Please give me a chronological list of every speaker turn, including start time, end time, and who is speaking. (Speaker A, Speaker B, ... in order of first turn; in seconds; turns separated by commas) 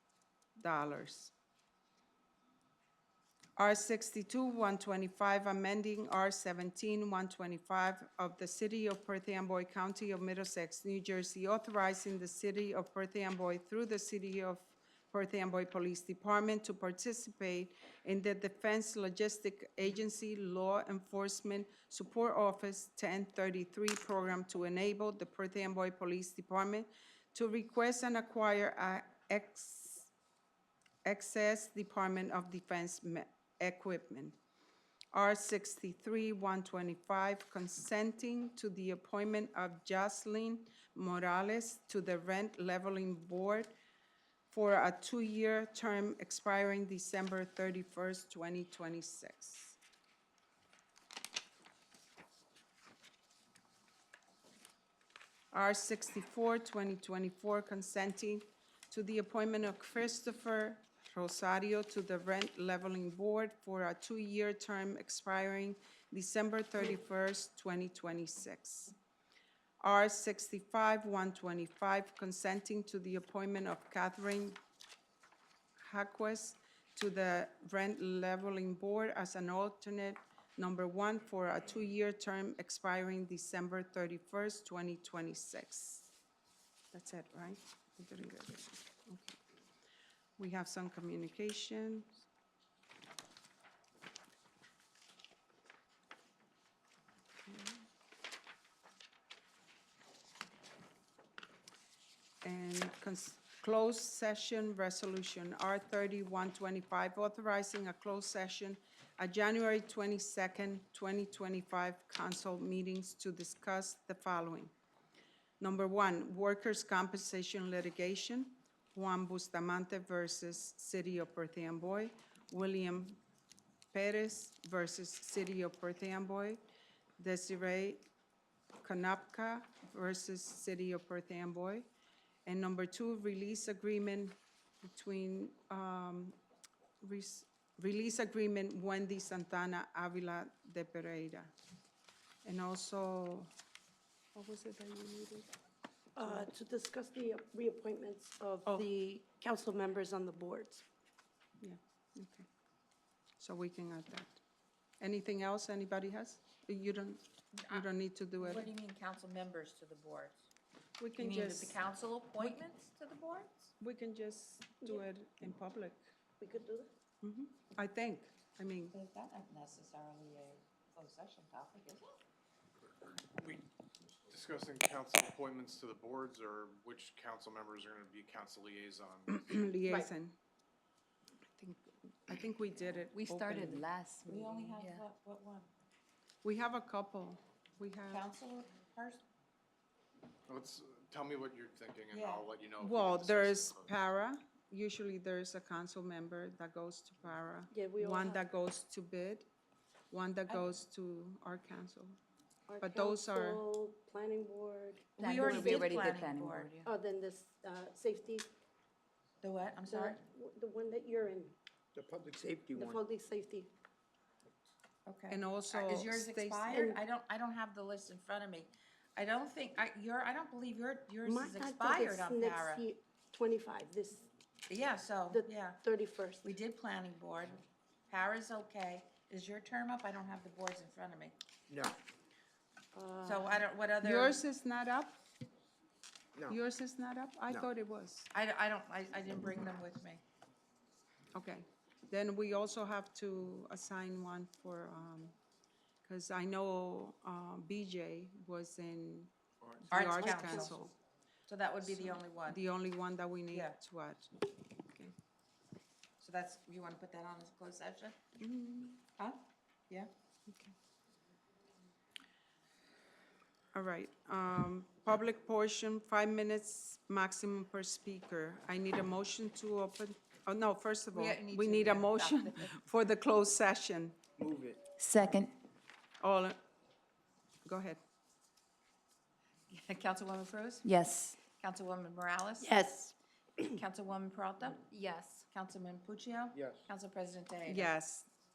Speaker A: 0.6-1.3, Speaker A: 3.6-30.1, Speaker A: 31.1-34.4, Speaker A: 35.1-43.8, Speaker A: 44.5-49.8, Speaker A: 55.5-69.0, Speaker A: 69.8-74.6, Speaker A: 75.8-86.1, Speaker A: 86.9-89.4, Speaker A: 90.4-92.3, Speaker A: 97.4-97.8, Speaker A: 102.4-114.7, Speaker A: 115.6-123.2, Speaker A: 123.9-126.6, Speaker A: 127.2-128.1, Speaker A: 128.8-131.9, Speaker A: 132.5-136.4, Speaker A: 137.0-141.5, Speaker A: 142.4-143.5, Speaker A: 144.3-145.5, Speaker B: 146.2-150.8, Speaker A: 146.2-146.5, Speaker A: 151.6-152.5, Speaker A: 153.4-154.4, Speaker A: 155.0-158.7, Speaker C: 157.6-157.9, Speaker C: 158.4-160.4, Speaker A: 161.0-161.8, Speaker C: 161.2-163.7, Speaker A: 163.8-166.0, Speaker B: 166.4-166.9, Speaker A: 167.2-168.9, Speaker C: 168.9-172.2, Speaker D: 173.0-173.7, Speaker D: 174.3-179.5, Speaker A: 179.3-180.4, Speaker A: 181.6-183.9, Speaker E: 183.1-185.0, Speaker C: 184.3-185.7, Speaker A: 186.4-188.3, Speaker C: 188.1-189.2, Speaker D: 190.5-193.9, Speaker C: 192.1-192.5, Speaker A: 192.8-199.5, Speaker B: 197.7-198.4, Speaker A: 200.1-202.2, Speaker B: 202.7-206.0, Speaker A: 202.8-203.6, Speaker E: 205.2-206.8, Speaker C: 205.2-206.9, Speaker B: 206.8-208.5, Speaker C: 209.4-210.2, Speaker B: 209.9-211.6, Speaker F: 211.9-213.0, Speaker B: 212.8-213.7, Speaker C: 215.1-222.8, Speaker A: 215.3-216.9, Speaker B: 216.7-217.0, Speaker B: 221.2-224.3, Speaker C: 224.7-225.8, Speaker B: 225.3-226.5, Speaker C: 226.4-231.4, Speaker F: 231.7-232.0, Speaker B: 232.9-233.6, Speaker C: 233.2-234.4, Speaker A: 234.0-235.2, Speaker A: 236.5-238.3, Speaker C: 238.3-240.2, Speaker A: 241.3-245.3, Speaker A: 246.1-249.3, Speaker A: 249.9-250.9, Speaker C: 249.9-250.8, Speaker B: 250.1-250.9, Speaker C: 251.5-252.6, Speaker A: 251.8-255.1, Speaker C: 253.5-253.8, Speaker C: 256.2-258.2, Speaker A: 258.4-259.0, Speaker C: 259.2-260.1, Speaker A: 260.5-260.7, Speaker A: 263.7-274.2, Speaker C: 271.1-272.7, Speaker F: 274.4-274.8, Speaker E: 275.0-275.5, Speaker A: 276.2-276.6, Speaker A: 277.7-278.0, Speaker C: 279.7-280.9, Speaker E: 280.9-281.4, Speaker C: 281.4-282.8, Speaker E: 282.6-283.1, Speaker C: 283.6-284.9, Speaker E: 285.0-285.4, Speaker C: 285.5-287.9, Speaker F: 286.6-286.8, Speaker A: 287.7-288.3